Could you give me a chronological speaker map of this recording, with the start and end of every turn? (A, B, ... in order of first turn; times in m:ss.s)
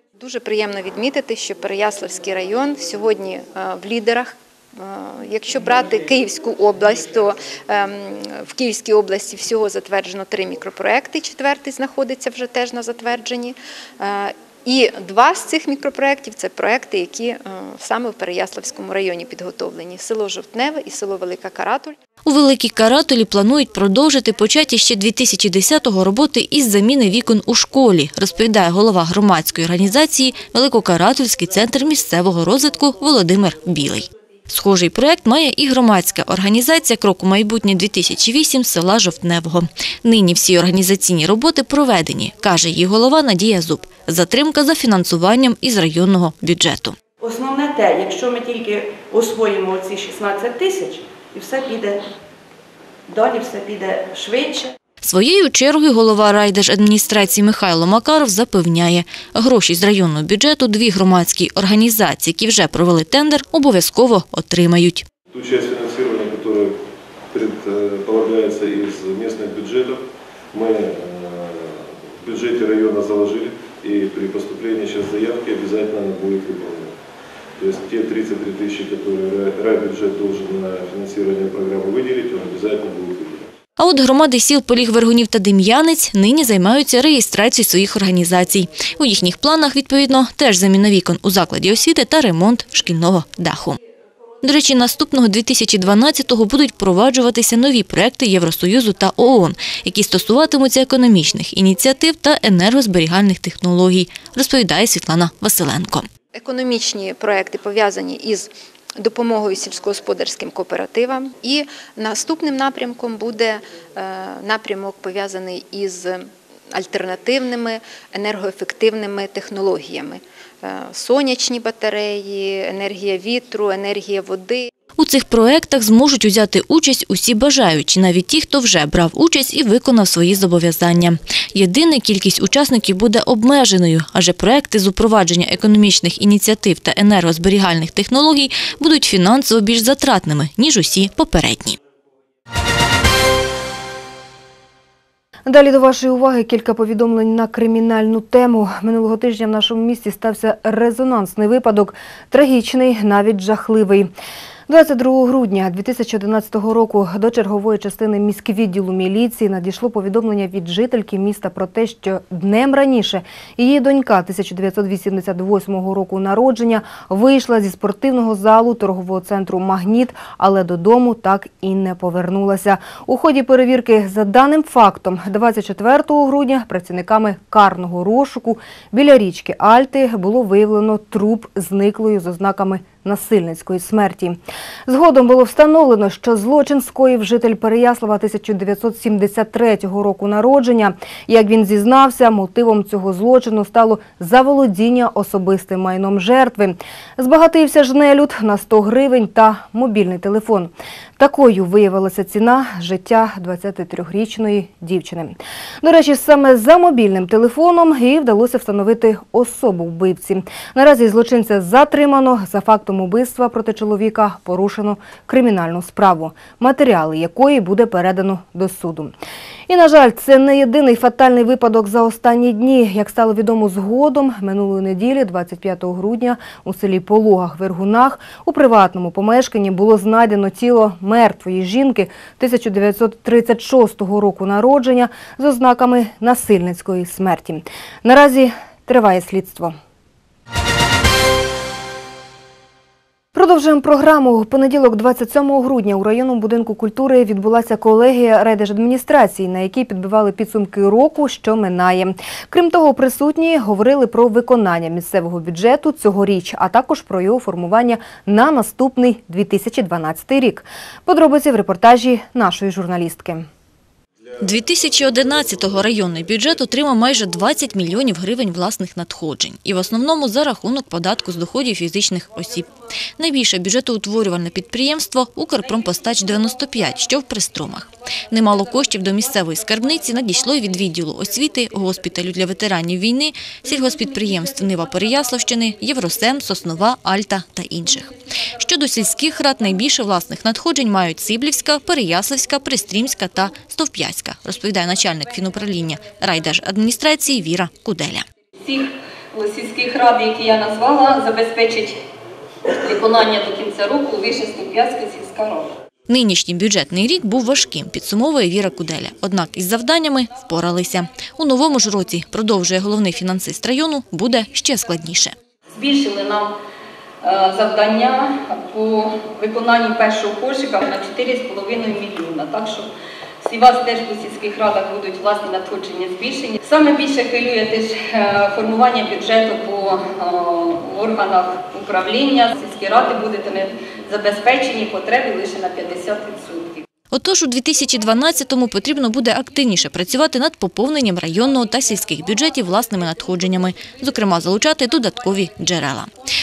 0:00.2-0:22.0 A
0:22.2-0:47.0 B
0:47.2-0:52.0 C
0:53.1-0:54.7 C
0:55.0-1:05.0 B
1:05.3-1:06.8 D
1:07.3-1:16.9 D
1:17.6-1:23.5 D
1:23.8-1:33.8 B
1:34.4-1:46.1 B
1:46.3-2:04.7 A
2:05.0-2:21.8 B
2:25.5-2:34.1 E
2:34.7-3:39.1 E
3:39.7-3:59.8 E
4:03.3-4:23.5 E
4:24.4-4:58.3 B
4:58.6-5:02.0 F
5:02.7-5:05.8 F
5:06.1-5:15.4 B
5:15.7-5:16.6 F
5:17.2-5:22.9 F
5:23.4-5:36.8 F
5:37.1-5:46.1 B